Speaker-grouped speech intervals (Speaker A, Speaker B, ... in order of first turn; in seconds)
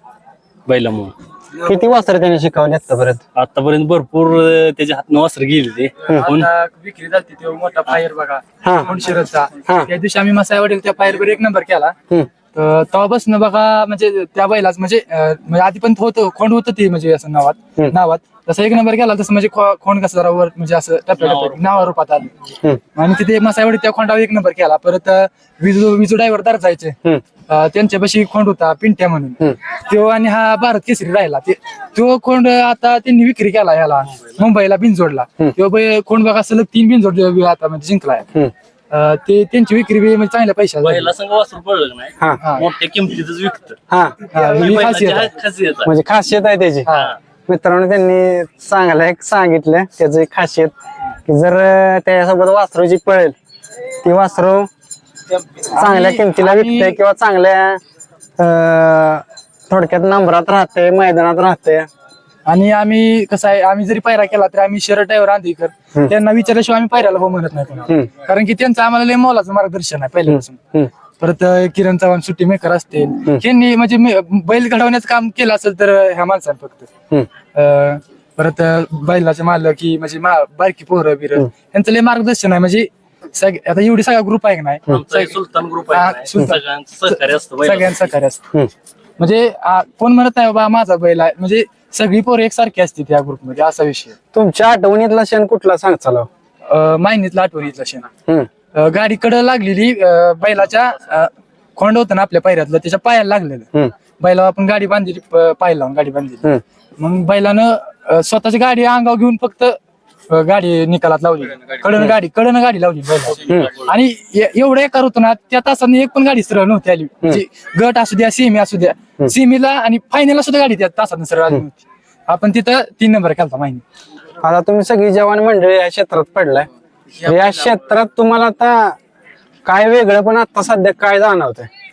Speaker A: 0.7-1.1, 3.3-6.5, 21.2-21.8, 40.8-43.8, 44.3-45.9, 46.9-47.2, 84.9-88.1, 113.4-113.7
Speaker B: 1.6-1.9, 6.0-11.9, 12.5-22.3, 22.9-38.2, 38.9-41.1, 42.4-42.7, 44.2-45.3, 46.9-47.1, 55.6-57.0, 62.5-70.6, 71.2-76.9, 77.5-85.3, 85.9-88.4, 89.2-94.2, 96.6-98.1, 98.7-103.7, 104.2-109.8, 110.3-123.8, 127.2-127.8
Speaker C: 1.6-3.2, 8.6-8.9, 43.9-44.3, 45.8-46.9, 47.5-50.7, 51.2-53.3, 54.0-54.7, 55.8-57.8, 58.4-61.9, 94.3-96.3, 124.4-126.7, 127.2-129.0, 129.6-131.7